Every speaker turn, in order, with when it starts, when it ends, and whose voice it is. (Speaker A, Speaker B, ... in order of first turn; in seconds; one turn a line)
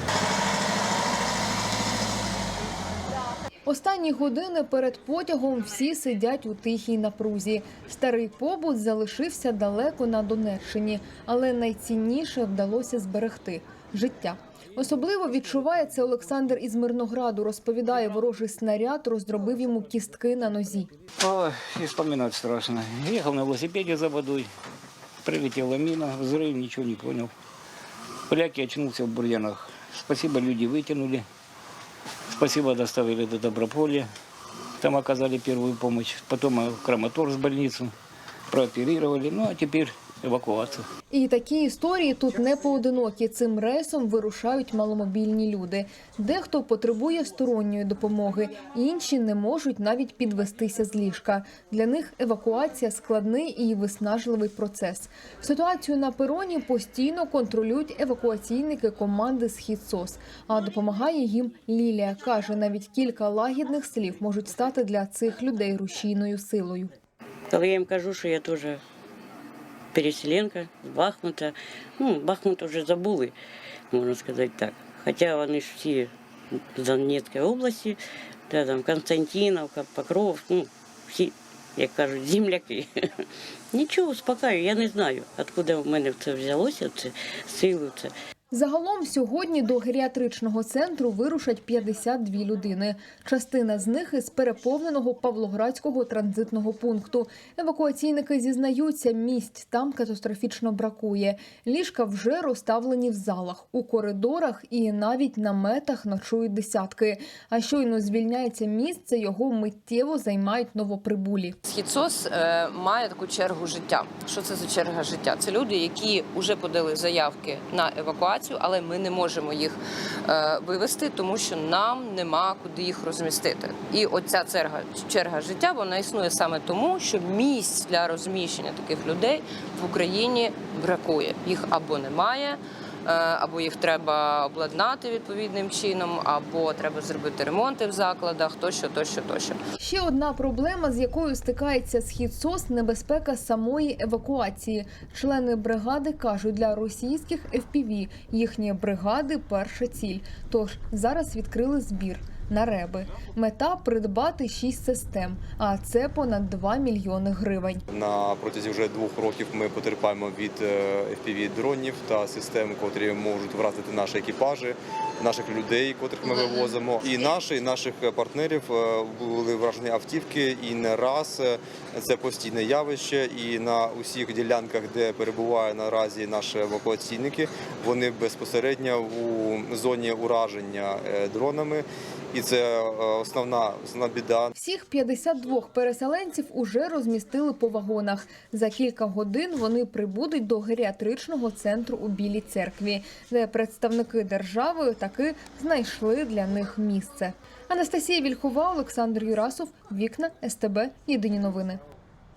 Speaker A: 3.7-20.9
Speaker B: 21.2-24.5
Speaker B: 25.2-27.3
Speaker B: 28.3-31.3
Speaker B: 32.4-34.1
Speaker B: 34.8-37.9
Speaker B: 38.5-40.9
Speaker A: 41.1-66.9
Speaker C: 67.5-68.8
Speaker C: 69.9-73.4
Speaker C: 73.9-83.1
Speaker C: 83.7-88.1
Speaker A: 88.5-111.6
Speaker D: 111.7-139.6
Speaker A: 139.8-157.8
Speaker E: 157.9-184.5
Speaker A: 184.6-201.8